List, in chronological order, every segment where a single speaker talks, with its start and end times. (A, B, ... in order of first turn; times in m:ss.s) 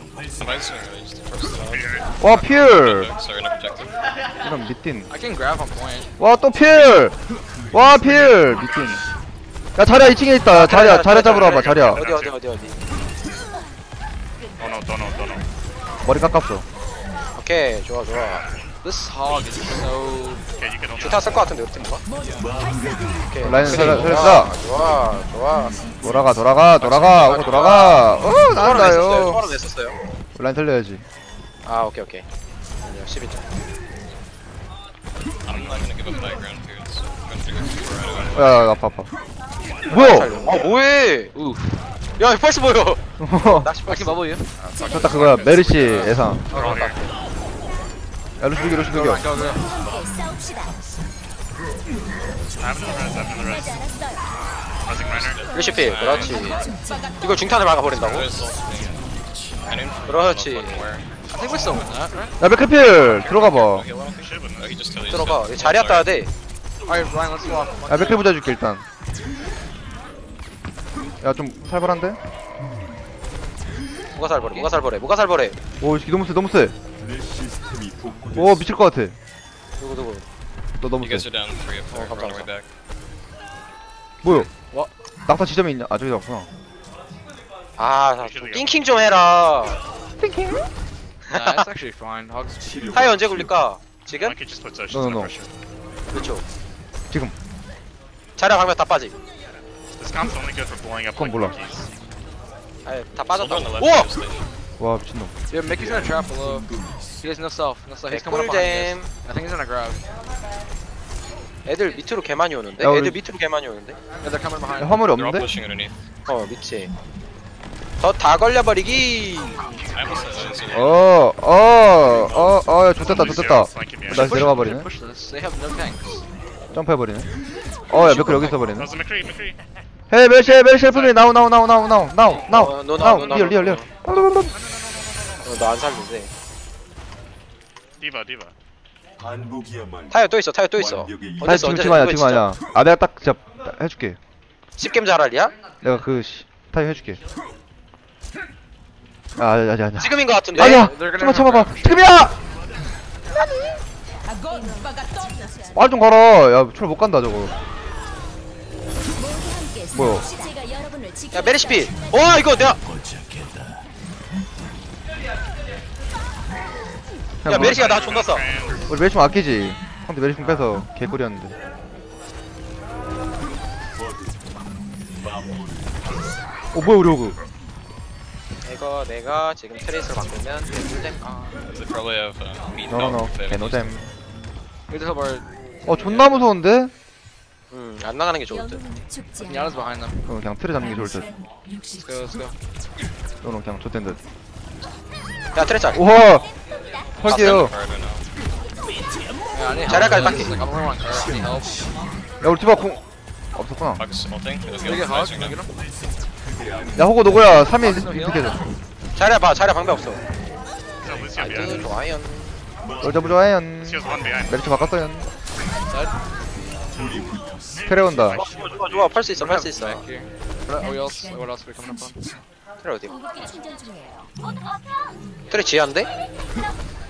0:00.4-0:03.9 A
0:01.6-0:02.1 B
0:02.2-0:03.2 C
0:04.4-0:05.1 C
0:05.1-0:06.1 D
0:06.2-0:07.2 C
0:07.7-0:09.0 C
0:09.8-0:12.0 C
0:10.5-0:12.8 E
0:11.3-0:12.4 B
0:14.6-0:15.4 B
0:16.0-0:16.6 C
0:17.4-0:18.4 E
0:18.8-0:20.4 D
0:20.6-0:21.5 B
0:21.0-0:22.0 E
0:23.3-0:25.8 E
0:23.4-0:24.5 C
0:23.7-0:24.2 D
0:26.0-0:29.4 C
0:26.8-0:27.7 B
0:27.1-0:30.0 E
0:30.4-0:31.0 C
0:31.6-0:32.2 E
0:32.8-0:33.4 E
0:35.4-0:38.7 A
0:38.3-0:39.1 C
0:39.9-0:41.3 E
0:39.9-0:40.3 C
0:41.3-0:41.8 D
0:42.2-0:44.2 E
0:43.2-0:43.7 C
0:43.9-0:44.5 D
0:44.6-0:47.0 B
0:44.8-0:46.5 C
0:46.5-0:46.9 D
0:46.6-0:47.1 E
0:48.4-0:49.3 C
0:48.9-0:49.8 D
0:52.6-0:53.8 B
0:54.8-0:55.5 B
0:55.3-0:56.3 A
0:55.5-0:56.6 E
0:57.2-0:58.3 E
0:58.0-0:59.0 A
0:59.6-1:01.1 A
1:00.1-1:00.9 E
1:01.3-1:02.4 D
1:02.4-1:03.9 C
1:02.8-1:06.1 A
1:04.2-1:04.7 B
1:05.1-1:06.3 E
1:06.9-1:08.3 D
1:07.9-1:08.8 C
1:11.2-1:12.2 C
1:14.2-1:15.6 E
1:14.4-1:14.8 D
1:15.8-1:16.8 C
1:18.3-1:19.2 C
1:19.8-1:20.2 E
1:20.8-1:21.3 C
1:21.0-1:22.7 A
1:21.9-1:22.5 E
1:24.2-1:24.5 C
1:25.2-1:26.5 C
1:27.8-1:29.8 E
1:28.2-1:28.8 B
1:30.2-1:30.6 C
1:31.3-1:31.6 E
1:31.3-1:32.7 D
1:32.9-1:34.4 E
1:34.1-1:35.5 B
1:34.9-1:35.4 C
1:36.1-1:36.4 E
1:38.4-1:39.2 E
1:40.0-1:41.9 B
1:41.2-1:41.6 C
1:42.8-1:44.1 E
1:43.3-1:44.5 A
1:44.8-1:45.3 C
1:45.5-1:46.7 D
1:47.2-1:50.0 D
1:48.1-1:49.1 E
1:51.7-1:54.0 E
1:52.8-1:53.2 C
1:54.2-1:55.0 D
1:54.8-1:55.5 C
1:55.1-1:55.9 A
1:56.3-1:56.9 E
1:58.0-1:59.6 E
1:59.9-2:01.0 A
2:00.7-2:04.9 C
2:02.2-2:04.4 B
2:04.1-2:06.2 D
2:06.7-2:07.3 C
2:07.9-2:08.9 C
2:07.9-2:08.7 D
2:08.8-2:09.6 B
2:10.1-2:14.5 C
2:10.8-2:11.2 B
2:12.5-2:13.9 E
2:14.6-2:15.4 B
2:15.4-2:16.3 E
2:18.0-2:18.5 B
2:20.1-2:22.5 E
2:21.4-2:24.2 C
2:24.8-2:25.6 E
2:25.8-2:27.2 C
2:29.4-2:32.4 C
2:30.0-2:30.8 E
2:30.6-2:32.1 D
2:35.7-2:37.5 C
2:39.9-2:40.3 C
2:41.3-2:42.8 E
2:47.4-2:47.8 C
2:47.5-2:48.5 E
2:47.6-2:48.9 B
2:48.9-2:51.6 C
2:56.7-2:57.4 C
2:58.6-3:01.3 E
3:01.2-3:01.6 D
3:01.7-3:04.0 A
3:02.9-3:04.0 C
3:04.9-3:06.5 D
3:05.8-3:06.9 C
3:07.7-3:08.8 E
3:09.4-3:10.3 D
3:10.2-3:11.3 C
3:12.0-3:12.6 D
3:13.4-3:14.2 C
3:15.6-3:16.0 E
3:15.9-3:16.5 C
3:17.2-3:17.7 C
3:17.2-3:18.2 A
3:19.5-3:21.8 D
3:19.9-3:20.5 E
3:22.4-3:23.0 C
3:23.6-3:24.0 C
3:24.0-3:25.6 A
3:24.8-3:25.7 D
3:27.0-3:28.6 C
3:27.5-3:28.6 D
3:29.2-3:30.2 E
3:31.0-3:31.9 B
3:31.3-3:32.6 E
3:33.0-3:35.3 C
3:33.8-3:34.6 B
3:35.9-3:36.2 D
3:37.8-3:38.5 C
3:37.9-3:39.2 B
3:38.4-3:40.0 E
3:39.3-3:42.2 D
3:42.8-3:43.2 E
3:45.5-3:46.1 E